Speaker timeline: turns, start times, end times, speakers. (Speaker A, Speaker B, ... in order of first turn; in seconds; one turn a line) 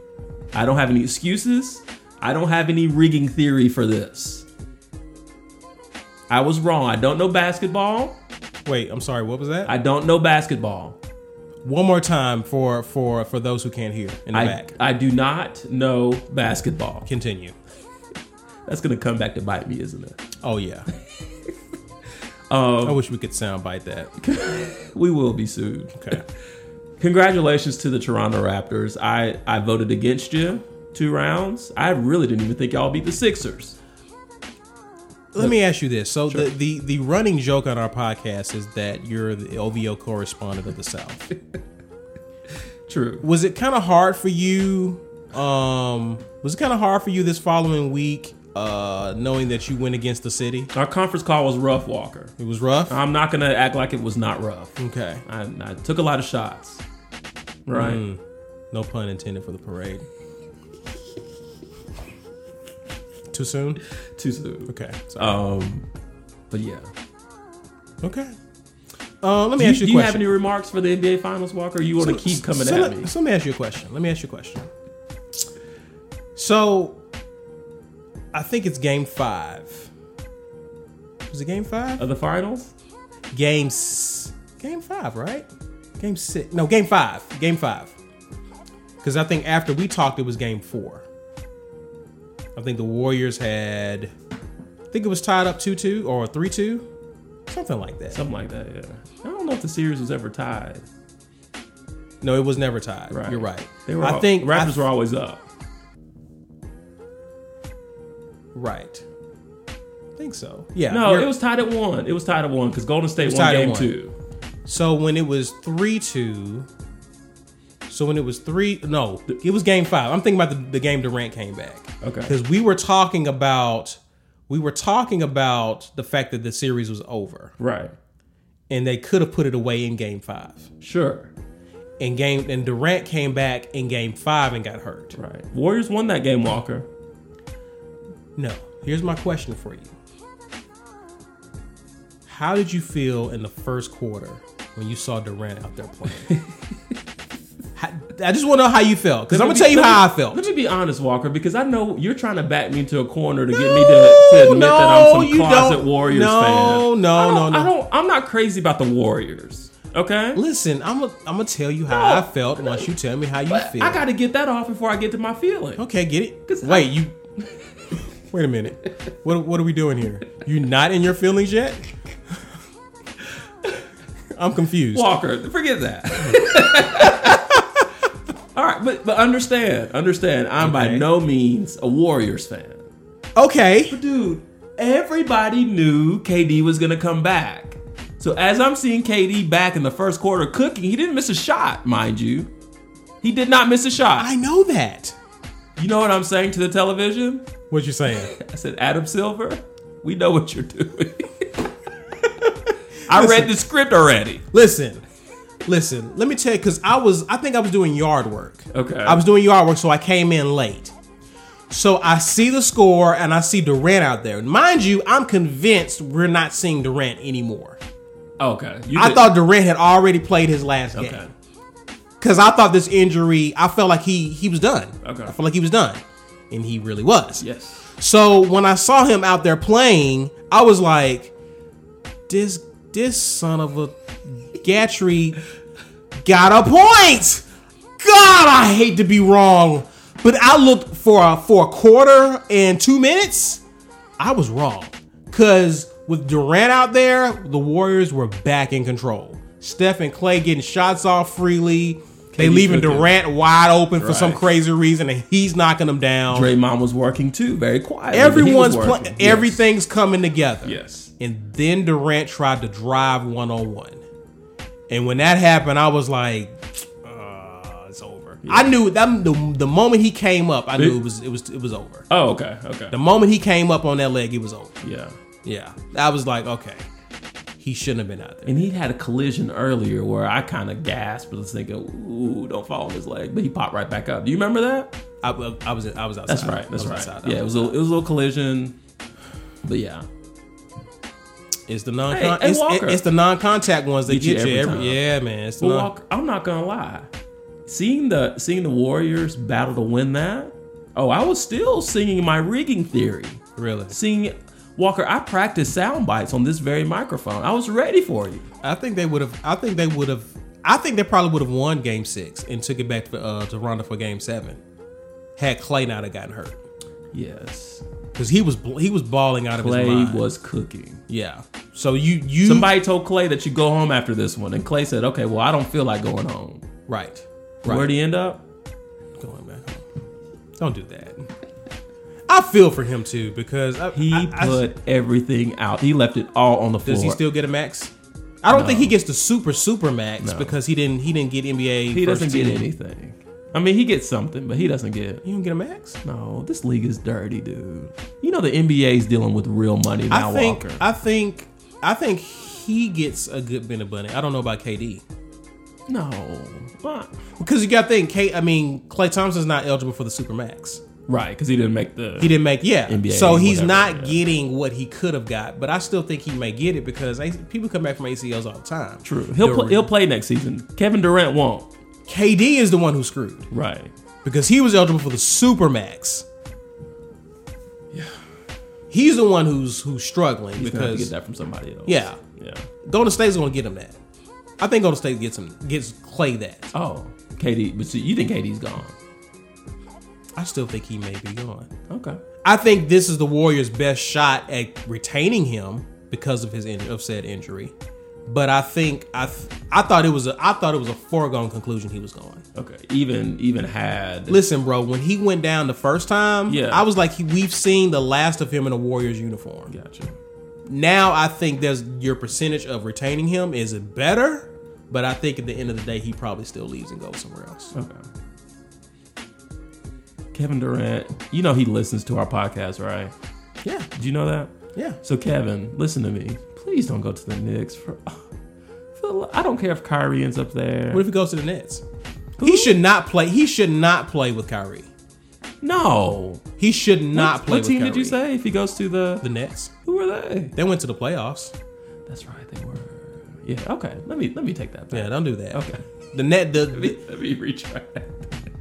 Speaker A: 0.5-4.5
Speaker A: 6.3-8.2
Speaker B: 8.7-9.7
Speaker A: 9.7-11.0
Speaker B: 11.6-14.7
Speaker A: 14.3-17.1
Speaker B: 17.1-17.6
Speaker A: 18.7-20.3
Speaker B: 20.4-20.9
Speaker A: 22.5-23.0
Speaker B: 22.8-24.1
Speaker A: 24.2-26.2
Speaker B: 25.9-26.2
Speaker A: 27.0-33.8
Speaker B: 35.3-41.3
Speaker A: 42.9-43.2
Speaker B: 43.2-50.7
Speaker A: 50.7-52.3
Speaker B: 52.4-53.0
Speaker A: 52.9-56.8
Speaker B: 54.8-55.2
Speaker A: 57.7-58.0
Speaker B: 57.7-58.2
Speaker B: 58.7-60.1
Speaker B: 63.3-63.8
Speaker A: 64.2-65.9
Speaker B: 64.7-65.4
Speaker A: 66.5-66.9
Speaker B: 68.0-68.3
Speaker B: 69.2-70.2
Speaker A: 69.6-73.1
Speaker B: 72.0-74.7
Speaker B: 76.4-77.0
Speaker B: 78.3-79.9
Speaker B: 81.3-82.0
Speaker A: 82.0-82.7
Speaker B: 83.3-85.5
Speaker B: 86.0-87.9
Speaker B: 89.0-91.1
Speaker B: 92.5-94.1
Speaker B: 94.9-96.9
Speaker B: 97.5-98.2
Speaker A: 98.1-100.9
Speaker B: 102.2-104.8
Speaker A: 103.1-105.5
Speaker B: 108.5-109.0
Speaker B: 110.2-111.3
Speaker A: 110.9-114.1
Speaker B: 113.2-113.9
Speaker B: 114.7-116.7
Speaker B: 117.9-127.5
Speaker A: 122.0-122.4
Speaker A: 127.6-127.9
Speaker B: 128.7-130.7
Speaker A: 130.8-131.3
Speaker B: 132.0-135.2
Speaker A: 135.2-136.9
Speaker B: 138.4-139.9
Speaker B: 142.3-146.3
Speaker A: 146.3-146.5
Speaker B: 147.8-150.4
Speaker A: 149.3-160.4
Speaker B: 153.5-157.7
Speaker B: 160.3-164.0
Speaker A: 161.9-162.9
Speaker A: 163.5-165.8
Speaker B: 165.8-167.2
Speaker A: 166.5-166.9
Speaker B: 168.3-171.8
Speaker B: 174.3-175.1
Speaker A: 174.9-177.6
Speaker A: 178.6-182.8
Speaker B: 180.6-181.1
Speaker B: 183.4-184.0
Speaker A: 183.9-192.5
Speaker A: 193.2-194.3
Speaker B: 194.2-195.2
Speaker A: 195.8-197.5
Speaker B: 197.7-198.3
Speaker A: 198.1-201.7
Speaker A: 203.1-204.4
Speaker B: 203.1-203.5
Speaker B: 204.5-205.0
Speaker B: 205.7-210.9
Speaker A: 208.7-209.2
Speaker B: 211.7-217.8
Speaker A: 218.4-219.3
Speaker B: 218.9-221.3
Speaker A: 221.0-221.3
Speaker B: 222.2-227.4
Speaker A: 225.0-225.3
Speaker A: 227.4-227.9
Speaker B: 227.9-231.3
Speaker B: 232.3-235.4
Speaker B: 236.2-237.5
Speaker B: 238.0-243.6
Speaker B: 244.2-256.5
Speaker A: 252.3-253.1
Speaker A: 254.0-254.5
Speaker A: 256.3-259.7
Speaker B: 258.1-264.0
Speaker A: 260.6-261.1
Speaker B: 264.9-272.1
Speaker A: 268.4-268.7
Speaker A: 272.1-273.0
Speaker B: 272.9-274.8
Speaker A: 274.8-275.1
Speaker B: 275.4-276.9
Speaker B: 277.6-278.6
Speaker A: 278.5-284.9
Speaker B: 285.2-287.8
Speaker A: 286.3-288.8
Speaker A: 289.6-290.1
Speaker B: 291.7-295.9
Speaker A: 292.1-293.0
Speaker A: 294.1-295.0
Speaker A: 295.6-297.1
Speaker A: 297.7-308.5
Speaker B: 303.6-303.9
Speaker B: 308.6-314.6
Speaker B: 315.4-316.6
Speaker A: 317.1-317.8
Speaker B: 318.2-320.2
Speaker A: 319.6-321.0
Speaker B: 321.1-322.7
Speaker A: 322.4-326.7
Speaker B: 326.9-327.9
Speaker A: 327.6-328.4
Speaker B: 329.2-329.9
Speaker B: 330.6-331.3
Speaker B: 332.3-334.6
Speaker A: 333.9-337.2
Speaker B: 336.9-337.9
Speaker B: 338.4-342.7
Speaker A: 338.5-338.9
Speaker A: 340.2-340.6
Speaker A: 341.9-345.2
Speaker B: 345.2-346.0
Speaker A: 346.0-350.8
Speaker B: 350.1-355.0
Speaker A: 355.9-357.2
Speaker B: 357.4-360.8
Speaker A: 361.1-362.4
Speaker B: 362.2-369.9
Speaker A: 362.9-364.2
Speaker A: 369.0-371.7
Speaker B: 372.1-373.5
Speaker A: 373.5-373.9
Speaker B: 374.2-376.3
Speaker B: 378.9-381.1
Speaker A: 380.6-382.7
Speaker B: 381.9-382.2
Speaker B: 382.8-384.0
Speaker B: 384.6-386.7
Speaker A: 386.7-389.0
Speaker B: 390.4-391.7
Speaker A: 391.9-392.2
Speaker B: 392.4-397.7
Speaker B: 398.3-402.4
Speaker A: 402.6-404.4
Speaker B: 404.3-409.7
Speaker A: 406.5-406.9
Speaker A: 409.7-410.2
Speaker B: 410.7-417.7
Speaker A: 417.7-418.1
Speaker A: 420.3-423.1
Speaker B: 423.6-423.9
Speaker A: 424.0-428.3
Speaker A: 428.9-431.1
Speaker B: 430.9-431.8
Speaker A: 432.4-432.8
Speaker B: 432.4-434.9
Speaker A: 435.6-436.4
Speaker B: 436.6-438.2
Speaker A: 437.1-439.3
Speaker B: 439.2-439.7
Speaker A: 439.9-440.6
Speaker B: 440.6-441.5
Speaker A: 442.1-445.9
Speaker B: 444.9-447.0
Speaker A: 446.7-448.3